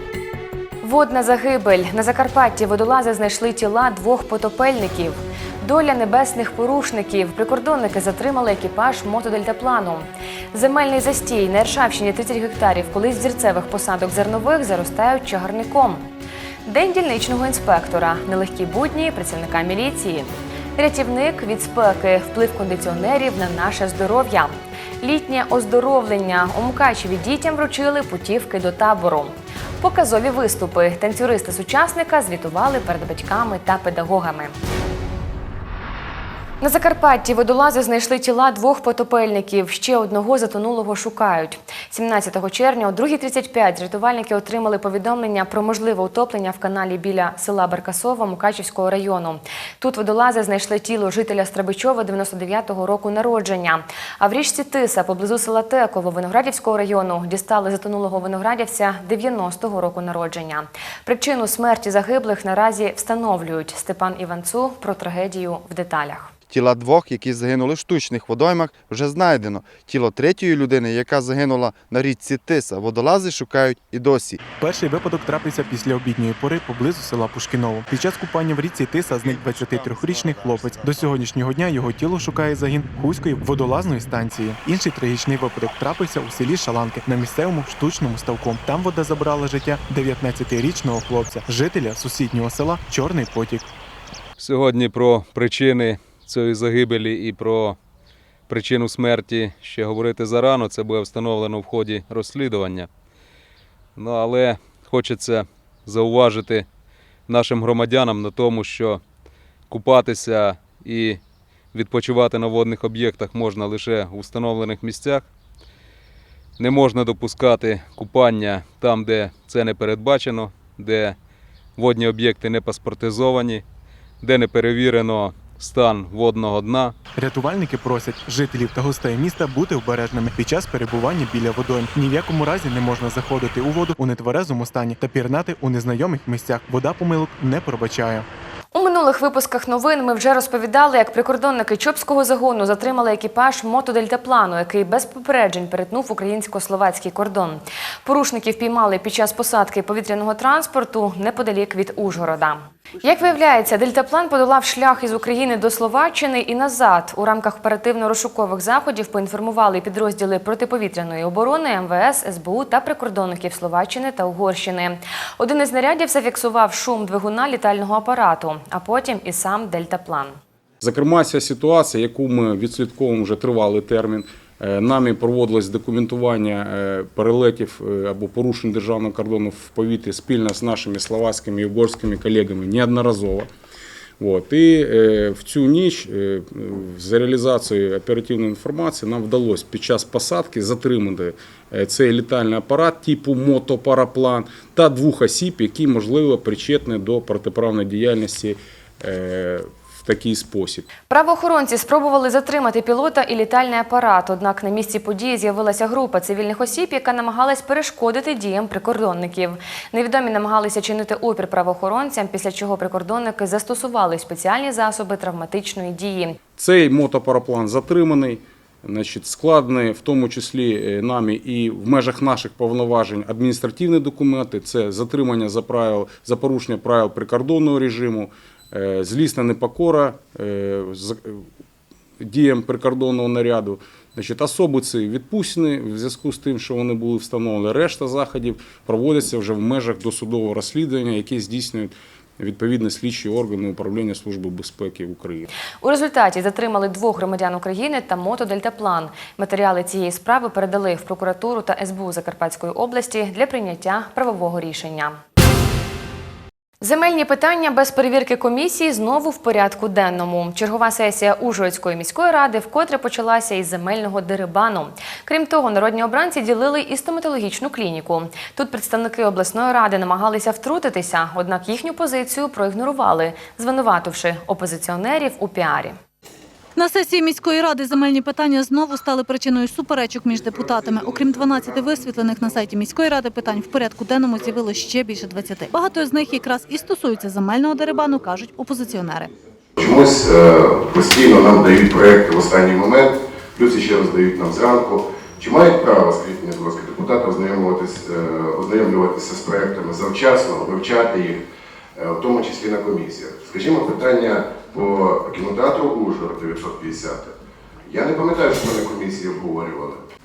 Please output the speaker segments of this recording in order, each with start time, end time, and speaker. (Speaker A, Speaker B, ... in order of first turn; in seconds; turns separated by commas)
Speaker A: 0.8-16.0, Speaker A: 16.7-34.5, Speaker A: 36.6-66.3, Speaker B: 66.5-74.4, Speaker C: 74.5-93.7, Speaker B: 80.2-80.5, Speaker D: 94.4-97.8, Speaker D: 98.5-102.9, Speaker D: 104.0-106.7, Speaker D: 107.3-109.0, Speaker D: 109.7-111.2, Speaker D: 111.7-115.3, Speaker D: 116.6-121.2, Speaker D: 121.8-123.6, Speaker D: 124.2-126.9, Speaker C: 127.2-138.2, Speaker A: 138.7-170.4, Speaker E: 170.8-183.5, Speaker E: 184.2-200.8, Speaker A: 201.1-216.4, Speaker E: 216.6-231.5, Speaker E: 232.2-245.5, Speaker A: 245.8-255.2, Speaker A: 256.8-276.0, Speaker F: 276.8-289.3, Speaker G: 289.8-301.4, Speaker G: 301.9-310.0